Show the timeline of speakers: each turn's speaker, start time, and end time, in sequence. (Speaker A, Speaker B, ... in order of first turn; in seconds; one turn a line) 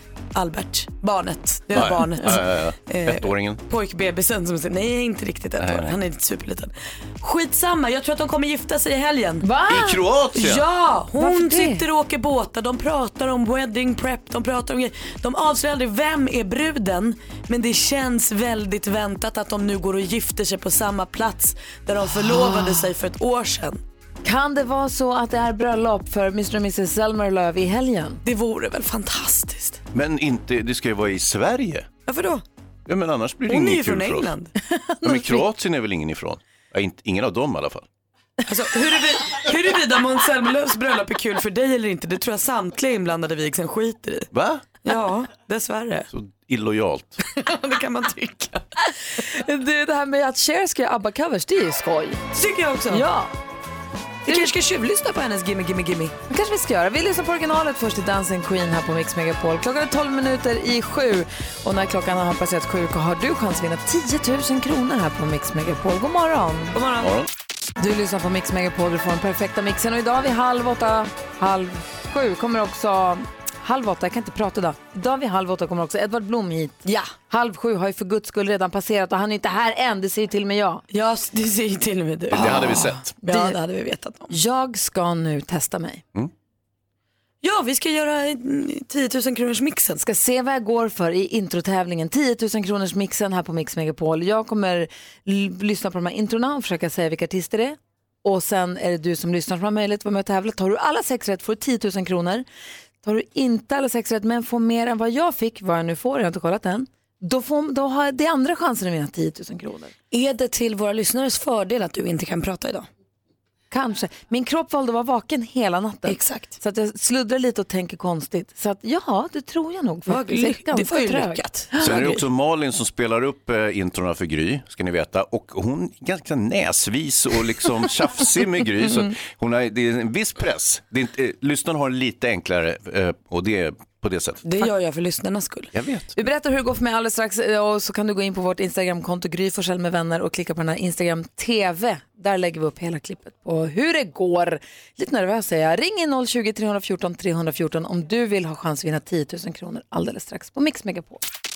Speaker A: 0.3-9.4
Speaker B: 1.7-3.6
Speaker B: 5.6-6.0
Speaker C: 9.4-10.0
Speaker B: 9.7-10.6
Speaker A: 10.3-23.8
Speaker C: 11.2-11.8
Speaker C: 22.1-22.9
Speaker C: 24.2-28.2
Speaker A: 28.2-29.8
Speaker B: 29.9-31.9
Speaker A: 32.0-32.4
Speaker B: 32.9-34.3
Speaker A: 33.5-34.5
Speaker C: 34.7-35.4
Speaker B: 35.0-37.9
Speaker A: 38.5-44.3
Speaker B: 44.3-44.6
Speaker A: 44.8-46.1
Speaker B: 46.1-47.2
Speaker A: 47.3-48.6
Speaker C: 49.2-52.2
Speaker A: 52.3-53.0
Speaker C: 52.9-53.3
Speaker C: 54.3-54.5
Speaker A: 54.3-56.1
Speaker C: 56.3-66.8
Speaker A: 66.7-67.1
Speaker B: 67.0-67.3
Speaker C: 67.8-80.8
Speaker A: 76.8-77.1
Speaker A: 80.9-84.3
Speaker B: 82.3-83.1
Speaker C: 82.4-83.5
Speaker C: 84.3-86.0
Speaker A: 87.4-90.0
Speaker C: 90.0-102.5
Speaker C: 103.0-109.9
Speaker A: 110.1-112.9
Speaker C: 113.7-122.0
Speaker A: 116.1-116.5
Speaker A: 120.1-122.2
Speaker B: 121.8-134.4
Speaker A: 134.4-135.7
Speaker B: 135.7-136.2
Speaker C: 136.2-151.2